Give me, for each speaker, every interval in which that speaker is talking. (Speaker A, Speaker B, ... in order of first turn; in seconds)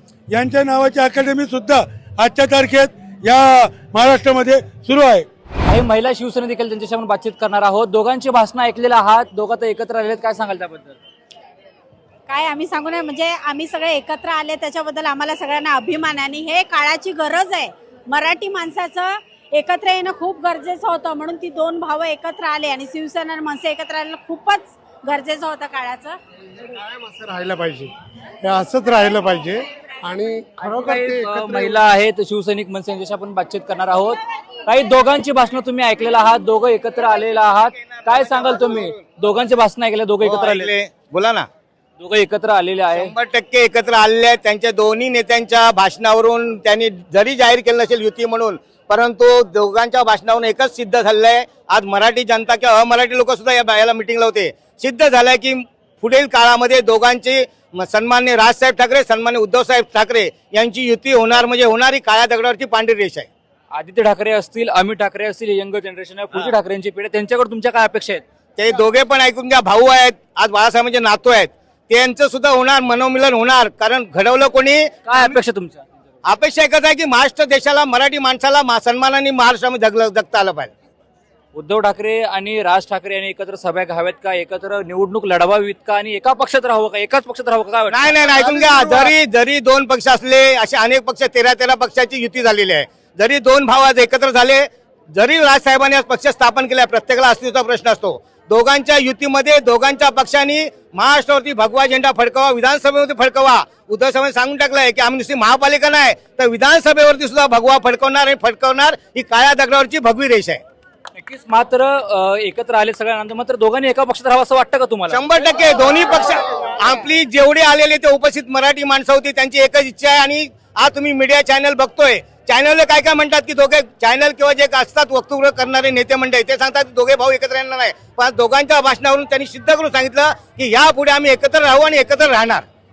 Speaker A: 0.3-5.3
Speaker B: 5.7-11.0, 30.6-40.7, 42.0-43.1, 63.7-68.2, 75.0-75.9, 81.5-89.1, 111.2-115.2
Speaker C: 12.3-26.2
Speaker D: 26.7-31.8
Speaker E: 40.2-41.5, 43.0-63.3, 68.6-75.3, 76.2-80.7, 87.9-110.6, 115.1-132.7